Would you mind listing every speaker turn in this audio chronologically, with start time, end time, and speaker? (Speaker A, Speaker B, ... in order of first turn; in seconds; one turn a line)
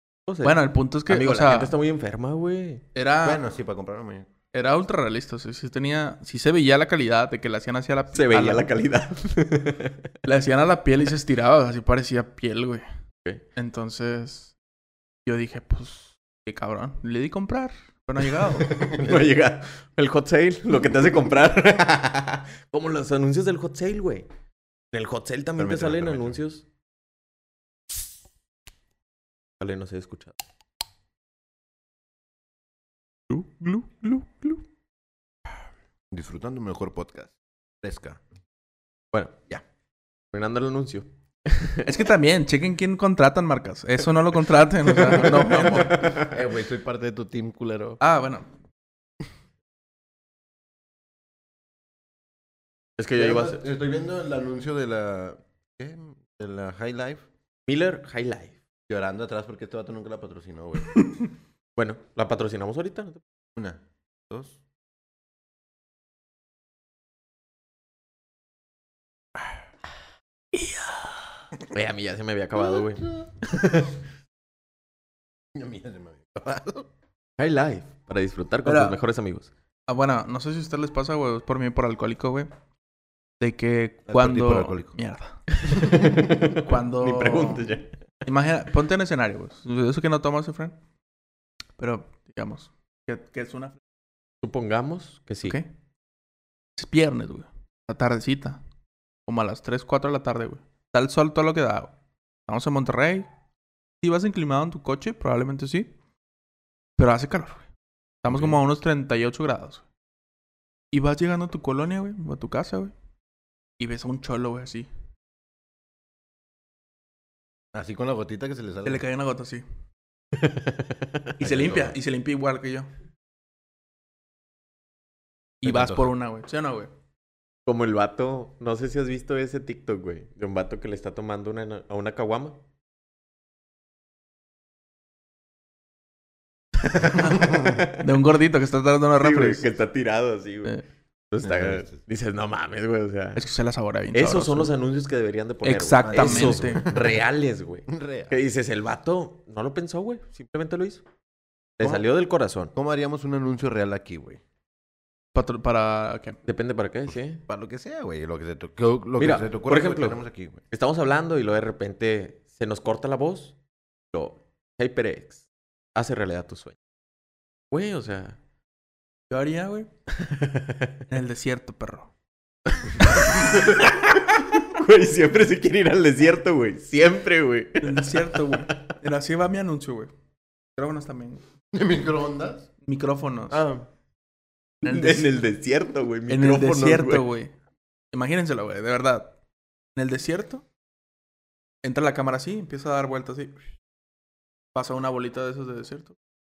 Speaker A: 0.3-2.8
Speaker B: 0.4-1.7
Speaker B: 3.0-3.4
Speaker C: 3.2-4.3
Speaker B: 4.5-8.7
Speaker A: 8.1-10.1
Speaker B: 10.2-12.8
Speaker B: 13.6-14.5
Speaker B: 15.3-18.8
Speaker A: 18.6-24.3
Speaker C: 19.0-19.3
Speaker A: 24.9-26.6
Speaker C: 25.6-26.4
Speaker A: 29.6-30.4
Speaker B: 33.3-33.9
Speaker C: 36.1-38.2
Speaker A: 39.1-39.5
Speaker A: 40.3-41.9
Speaker B: 41.8-46.1
Speaker A: 44.9-46.4
Speaker C: 46.1-48.0
Speaker B: 48.0-48.5
Speaker A: 53.0-53.6
Speaker C: 53.1-57.3
Speaker A: 57.7-58.6
Speaker C: 58.9-61.0
Speaker B: 61.0-61.3
Speaker A: 61.8-63.2
Speaker C: 63.6-64.6
Speaker B: 70.5-71.1
Speaker A: 71.7-74.0
Speaker C: 75.5-76.9
Speaker A: 77.4-79.5
Speaker B: 78.7-79.0
Speaker B: 79.9-82.5
Speaker B: 83.4-85.4
Speaker C: 84.1-84.9
Speaker A: 85.6-87.9
Speaker C: 85.8-86.6
Speaker B: 86.6-87.6
Speaker B: 88.3-90.8
Speaker B: 91.8-93.8
Speaker A: 94.4-95.6
Speaker B: 95.4-95.7
Speaker B: 96.8-98.6
Speaker B: 99.3-101.9
Speaker B: 102.5-103.3
Speaker B: 104.0-105.9
Speaker B: 107.0-107.7
Speaker B: 108.2-109.8
Speaker B: 110.9-112.9
Speaker B: 113.8-114.9
Speaker C: 117.7-119.0
Speaker B: 118.8-119.6
Speaker A: 120.3-121.9
Speaker B: 121.4-122.9
Speaker B: 125.6-126.9
Speaker C: 125.6-126.1
Speaker A: 127.7-132.6
Speaker B: 137.0-139.7
Speaker A: 137.5-137.9
Speaker A: 139.2-140.8
Speaker A: 141.3-143.4
Speaker C: 141.4-142.0
Speaker B: 143.4-144.7
Speaker A: 144.1-151.0
Speaker B: 145.6-146.8
Speaker C: 146.0-147.2
Speaker C: 147.9-148.3
Speaker A: 151.8-152.7
Speaker C: 152.7-154.4
Speaker B: 155.3-156.4
Speaker A: 156.5-157.4
Speaker C: 157.5-160.6
Speaker A: 159.2-163.6
Speaker A: 164.1-165.4
Speaker A: 165.9-166.8
Speaker A: 167.7-168.4
Speaker B: 169.3-169.9
Speaker A: 170.3-170.9
Speaker B: 171.1-172.1
Speaker A: 173.0-178.6
Speaker B: 177.8-180.1
Speaker B: 180.8-181.4
Speaker C: 181.7-182.7
Speaker B: 182.8-183.7
Speaker C: 183.5-183.9
Speaker B: 184.8-185.3
Speaker A: 184.8-187.2
Speaker B: 186.3-187.5
Speaker B: 188.1-189.3
Speaker B: 189.9-190.6
Speaker B: 191.8-193.6
Speaker B: 194.8-196.2